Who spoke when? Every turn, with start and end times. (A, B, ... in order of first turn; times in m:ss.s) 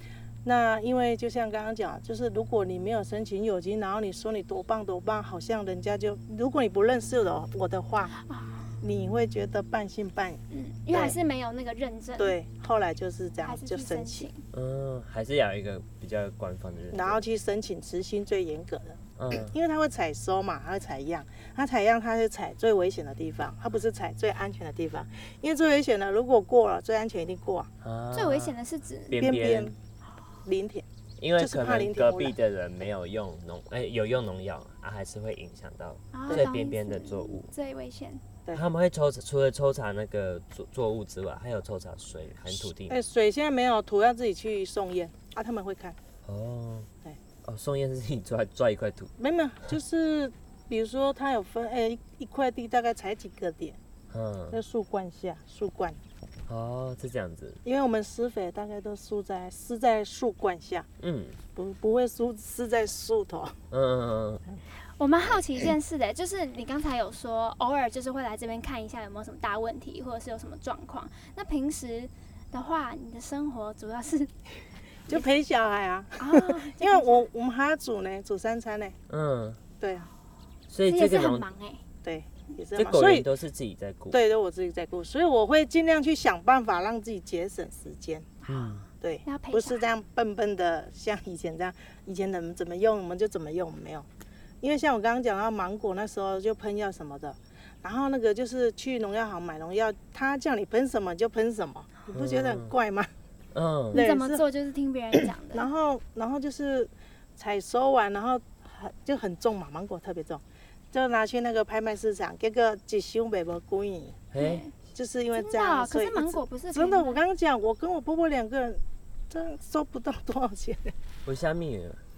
0:00.4-0:08.1 A
0:08.1-0:08.8 B
0:08.8-0:10.4 A
0:10.5-0:12.4 B
0:10.9-0:11.2 A
0:12.2-0:14.3 A
0:13.4-0:14.4 B
0:14.5-0:17.2 C
0:16.9-0:27.7 A
0:19.2-0:19.5 C
0:27.8-0:28.5 C
0:28.1-0:29.2 B
0:29.1-0:29.7 C
0:29.2-0:29.8 A
0:30.4-0:30.8 A
0:31.2-0:37.5 C
0:31.4-0:32.4 A
0:36.1-0:38.2 B
0:38.5-0:43.0 C
0:42.9-0:46.0 A
0:46.2-0:46.9 C
0:47.4-0:49.1 C
0:49.2-0:53.8 A
0:54.1-0:54.6 C
0:54.5-0:56.0 A
0:56.5-0:57.6 C
0:57.6-1:00.9 A
1:01.0-1:01.4 C
1:01.5-1:03.6 A
1:03.7-1:04.4 C
1:05.0-1:14.3 B
1:15.1-1:19.0 A
1:16.2-1:17.2 B
1:19.1-1:19.6 C
1:19.8-1:20.1 A
1:20.7-1:21.4 C
1:20.9-1:21.8 B
1:22.0-1:23.3 A
1:22.7-1:24.2 C
1:24.1-1:28.3 A
1:28.4-1:29.8 B
1:28.5-1:28.8 C
1:29.0-1:34.1 A
1:34.6-1:43.1 A
1:42.1-1:42.7 C
1:43.5-1:44.0 C
1:43.9-1:44.4 A
1:43.9-1:45.7 B
1:45.5-1:54.2 A
1:54.3-1:54.6 C
1:54.4-1:54.7 B
1:54.9-2:00.9 A
1:55.3-1:57.2 B
2:01.2-2:02.0 C